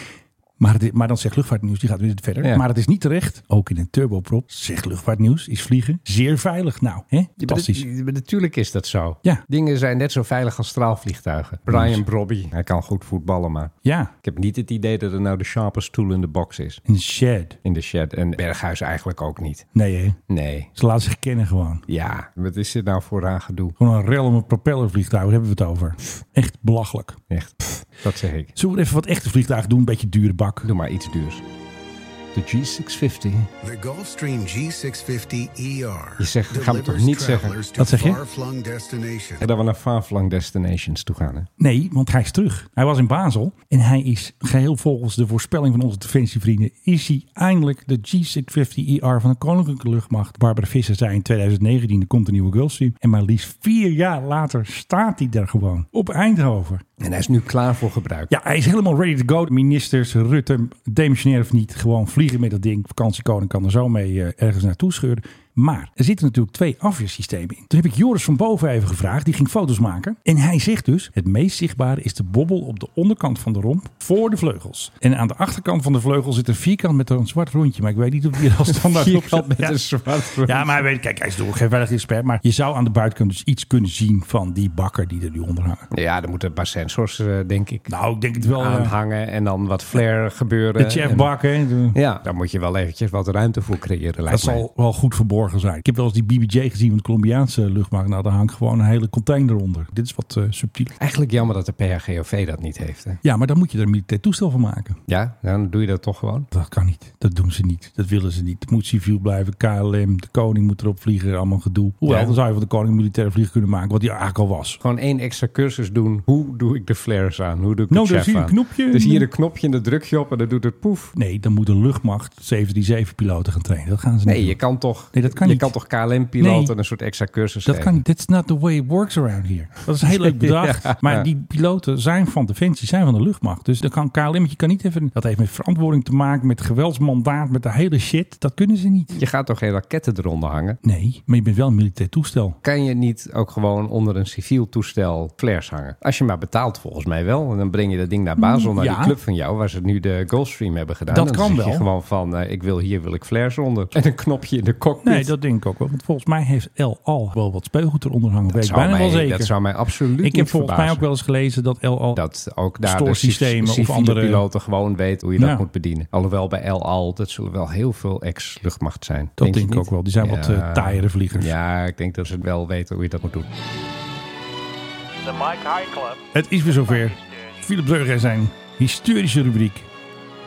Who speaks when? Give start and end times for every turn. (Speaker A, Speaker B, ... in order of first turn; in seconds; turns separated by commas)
Speaker A: 0.6-7.8, Speaker B: 7.4-16.8, Speaker A: 11.7-12.0, Speaker A: 13.8-14.1, Speaker A: 16.9-17.6, Speaker B: 17.6-19.7, Speaker A: 19.7-20.2, Speaker B: 20.3-20.7, Speaker A: 20.7-21.8, Speaker B: 21.9-23.8, Speaker A: 23.8-27.2, Speaker B: 27.3-28.5, Speaker A: 28.6-30.7, Speaker B: 30.6-31.4, Speaker B: 32.3-33.5, Speaker C: 33.6-39.4, Speaker B: 36.2-37.5, Speaker A: 37.8-38.2, Speaker B: 39.4-41.5, Speaker A: 41.6-56.8, Speaker B: 57.0-58.3, Speaker A: 58.3-79.8, Speaker B: 78.6-80.8, Speaker A: 80.3-85.9, Speaker B: 85.9-91.3, Speaker A: 87.9-88.9, Speaker A: 90.8-92.0, Speaker B: 91.9-94.7, Speaker A: 94.3-101.0, Speaker B: 101.0-103.2, Speaker A: 103.2-105.0, Speaker B: 105.1-106.5, Speaker A: 106.5-114.8, Speaker B: 112.0-112.4, Speaker B: 114.8-121.1, Speaker A: 117.9-119.3, Speaker A: 121.1-124.6, Speaker B: 124.2-128.0, Speaker A: 125.1-125.7, Speaker A: 126.4-126.7, Speaker A: 127.7-139.2, Speaker B: 130.0-131.3, Speaker B: 139.1-140.8, Speaker A: 140.8-142.6, Speaker B: 142.6-155.3, Speaker A: 148.4-149.2, Speaker A: 151.1-151.8, Speaker A: 155.0-159.5, Speaker B: 158.5-161.0, Speaker A: 160.2-162.2, Speaker B: 162.1-173.5, Speaker A: 162.8-164.4, Speaker A: 165.4-165.6, Speaker A: 169.4-171.5, Speaker A: 175.2-179.9